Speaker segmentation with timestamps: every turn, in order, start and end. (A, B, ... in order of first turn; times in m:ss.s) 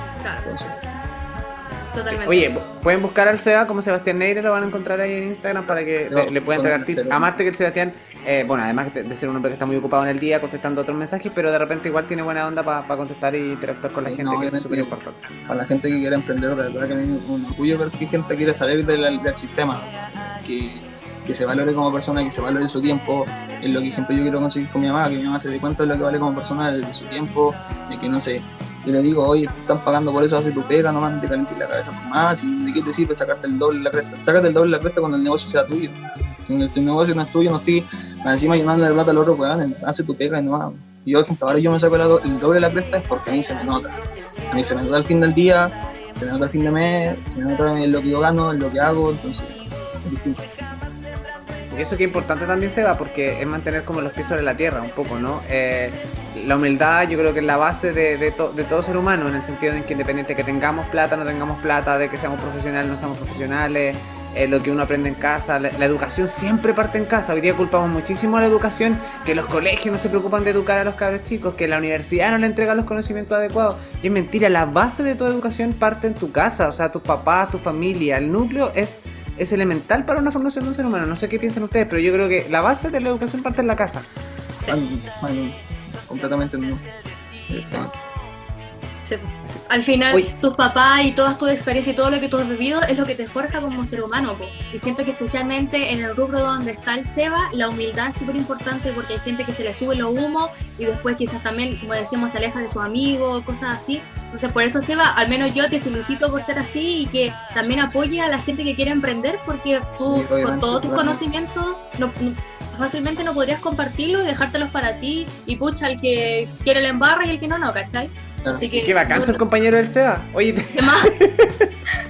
0:00.4-0:00.8 A
0:01.9-0:02.5 B
0:02.1-0:15.3 C
0:06.1-0:07.3 A
0:14.0-0:14.9 A
0:15.5-0:50.4 A
0:51.7-1:24.1 C
1:24.7-1:26.8 A
1:27.5-1:27.9 A
1:29.0-1:59.4 B
1:29.4-1:30.3 C
1:47.6-1:48.0 A
1:50.0-1:51.2 A
1:58.4-1:59.3 A
1:58.7-2:01.7 C
2:00.7-2:01.1 B